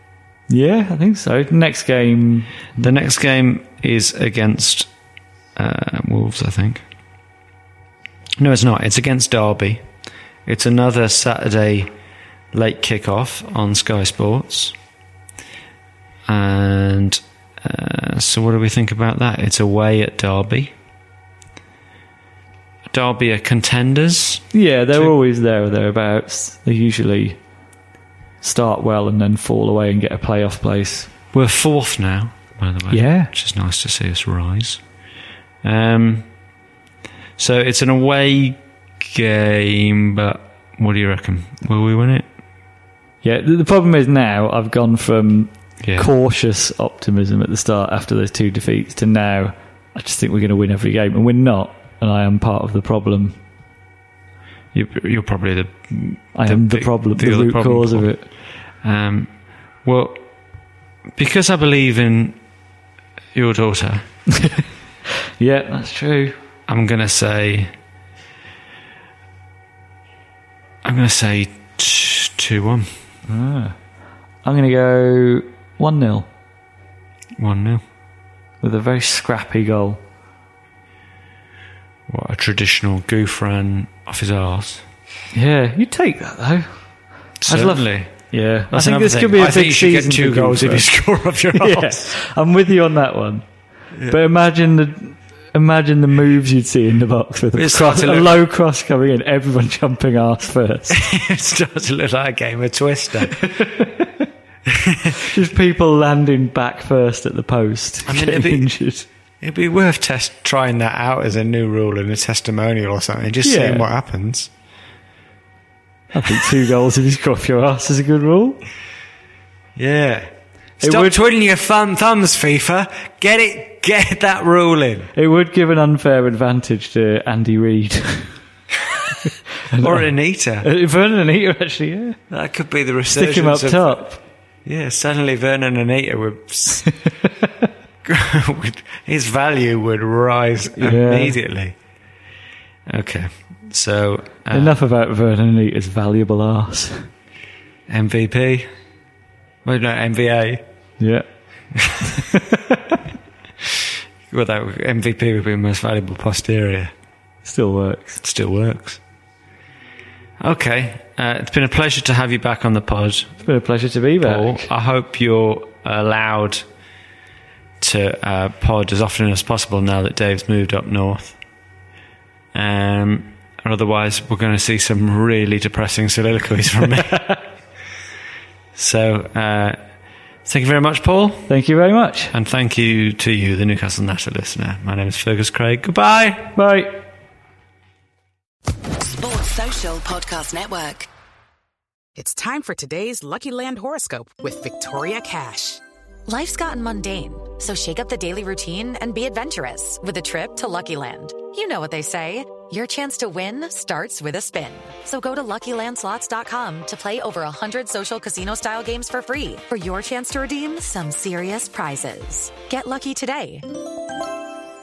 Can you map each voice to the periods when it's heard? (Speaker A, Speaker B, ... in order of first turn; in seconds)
Speaker A: 0.5-2.8, 24.5-27.4, 28.4-31.1, 32.9-33.3, 43.2-53.4, 56.4-58.2, 64.3-64.6, 65.4-66.4, 73.3-73.8, 74.4-76.3, 78.6-80.0, 85.3-86.8, 87.5-90.9, 91.6-93.5, 94.1-101.0, 103.4-104.2, 105.2-109.1, 113.4-113.9, 116.1-118.6, 120.8-121.2, 125.1-128.4, 129.7-132.2, 133.1-134.2, 140.8-141.4, 144.5-147.1, 151.0-151.3, 152.3-153.0, 157.4-158.2, 163.4-164.7, 181.5-182.3, 186.6-187.0
Speaker B: 2.8-4.9, 5.5-6.8, 8.4-9.9, 10.5-11.9, 12.5-14.8, 16.3-20.7, 22.9-25.1, 31.3-34.8, 35.6-36.3, 37.4-42.3, 45.8-46.1, 54.7-59.3, 59.8-60.2, 61.1-62.4, 63.4-64.1, 66.7-67.7, 70.8-72.9, 77.4-77.8, 82.1-84.9, 87.4-92.2, 97.5-98.3, 100.9-103.5, 104.7-105.2, 108.1-108.7, 109.4-114.5, 119.8-125.1, 129.8-130.7, 132.3-134.1, 134.7-137.1, 138.1-141.7, 142.9-144.8, 147.9-148.7, 149.7-150.6, 151.8-152.1, 154.3-156.9, 158.2-159.0, 160.4-163.4, 164.2-166.7, 167.8-171.4, 172.5-177.4, 178.8-179.8, 180.4-181.5, 182.3-186.5
Speaker C: 189.1-191.1
Speaker D: 192.2-195.8
Speaker E: 196.3-213.7